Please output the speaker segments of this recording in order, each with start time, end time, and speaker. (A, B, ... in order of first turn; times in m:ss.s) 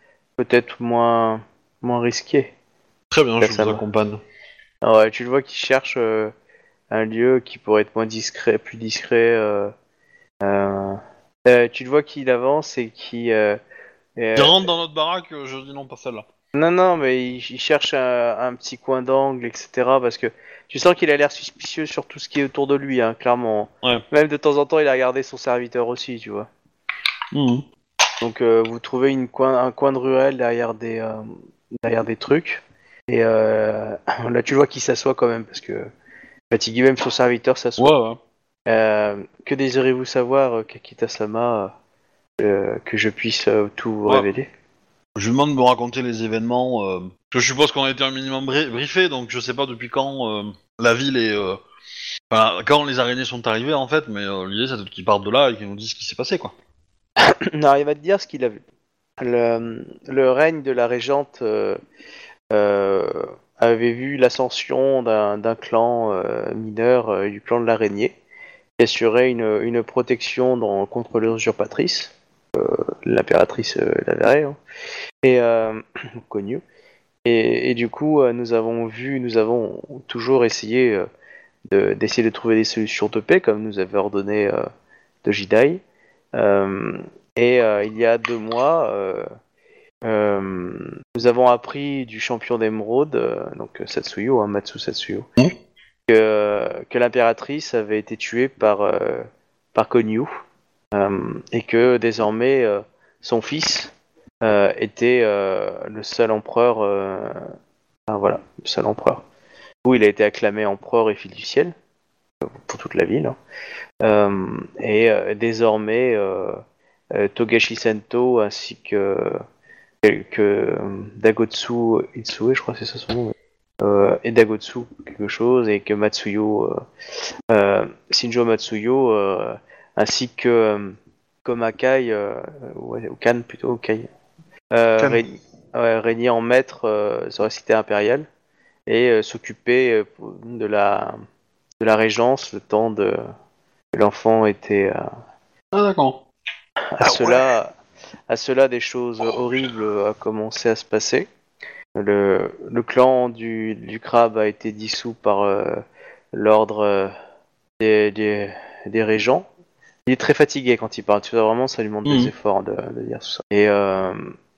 0:00.4-0:02.5 A
0:03.1-0:04.2 B
0:03.4-0:03.8 A
0:04.8-0:06.3 A
0:06.9-0:09.7 A
0:10.4-0:13.6 A
0:14.2-0:14.6 A
0:14.3-0:16.2 B
0:16.5-0:26.5 A
0:27.3-0:27.6 B
0:28.2-0:31.3 A
0:31.8-0:35.9 A
0:36.5-0:37.9 A
0:37.8-0:38.2 B
0:38.7-0:41.7 A
0:42.4-0:44.5 A
0:45.2-0:51.6 B
0:52.3-0:56.5 B
0:57.2-0:58.6 A
0:59.2-1:01.8 A
1:02.5-1:08.2 A
1:08.8-1:14.6 A
1:15.2-1:16.6 A
1:17.2-1:21.0 A
1:21.7-1:24.7 A
1:25.2-1:25.8 A
1:26.3-1:29.3 A
1:30.0-1:35.3 A
1:36.1-1:40.3 A
1:40.9-1:47.5 A
1:48.1-1:49.2 A
1:49.8-1:51.7 A
1:52.4-1:53.4 A
1:54.0-1:56.6 A
1:57.1-1:59.4 A
2:00.0-2:06.8 A
2:07.5-2:14.1 A
2:14.7-2:18.3 A
2:18.9-2:21.2 A
2:21.8-2:23.2 A
2:23.9-2:25.0 A
2:25.7-2:26.2 B
2:27.0-2:27.7 A
2:28.3-2:31.3 A
2:31.9-2:37.1 A
2:37.8-2:39.4 A
2:40.0-2:44.3 A
2:42.0-2:42.3 B